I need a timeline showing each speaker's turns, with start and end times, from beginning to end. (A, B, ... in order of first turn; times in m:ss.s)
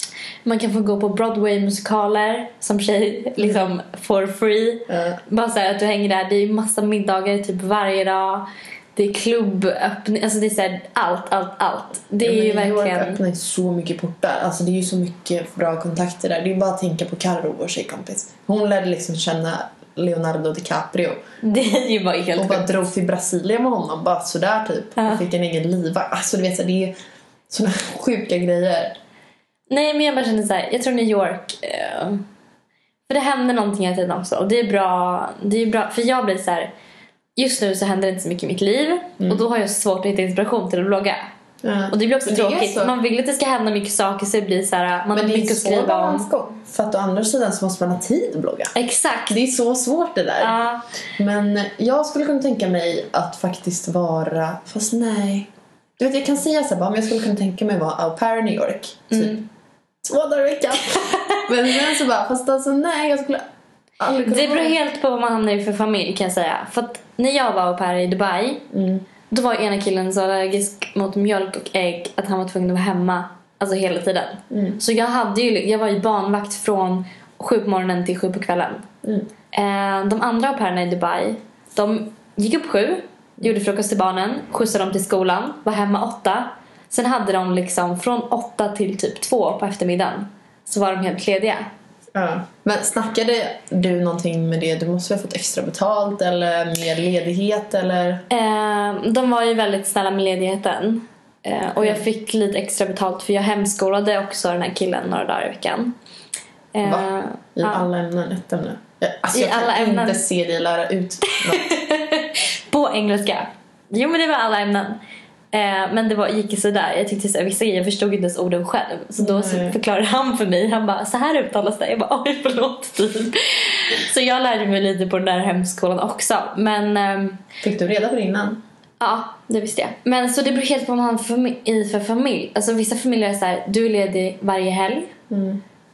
0:00.4-0:13.2 A
0:04.9-0:05.2 B
0:12.2-0:21.2 B
0:21.4-0:22.7 A
0:22.4-0:26.9 B
0:27.5-0:28.9 B
0:29.7-0:32.2 A
0:33.1-0:36.7 A
0:37.4-0:41.3 A
0:41.6-0:42.9 B
0:41.9-0:46.3 A
0:45.1-0:48.7 B
0:48.7-0:49.4 A
0:49.3-0:50.6 B
0:50.4-0:50.8 A
0:51.2-0:59.4 B
0:59.1-0:59.4 A
1:00.0-1:03.4 B
1:01.0-1:01.5 A
1:04.0-1:04.7 B
1:04.2-1:08.7 A
1:08.7-1:09.0 B
1:09.3-1:18.8 A
1:14.5-1:14.8 B
1:19.5-1:31.7 A
1:32.1-1:38.2 B
1:38.3-1:45.9 A
1:46.7-1:47.8 A
1:46.8-1:51.7 B
1:49.3-1:50.2 A
1:51.2-1:55.0 A
1:55.5-2:07.4 A
1:59.2-1:59.8 B
2:07.6-2:08.6 B
2:09.0-2:15.1 A
2:15.3-2:15.6 B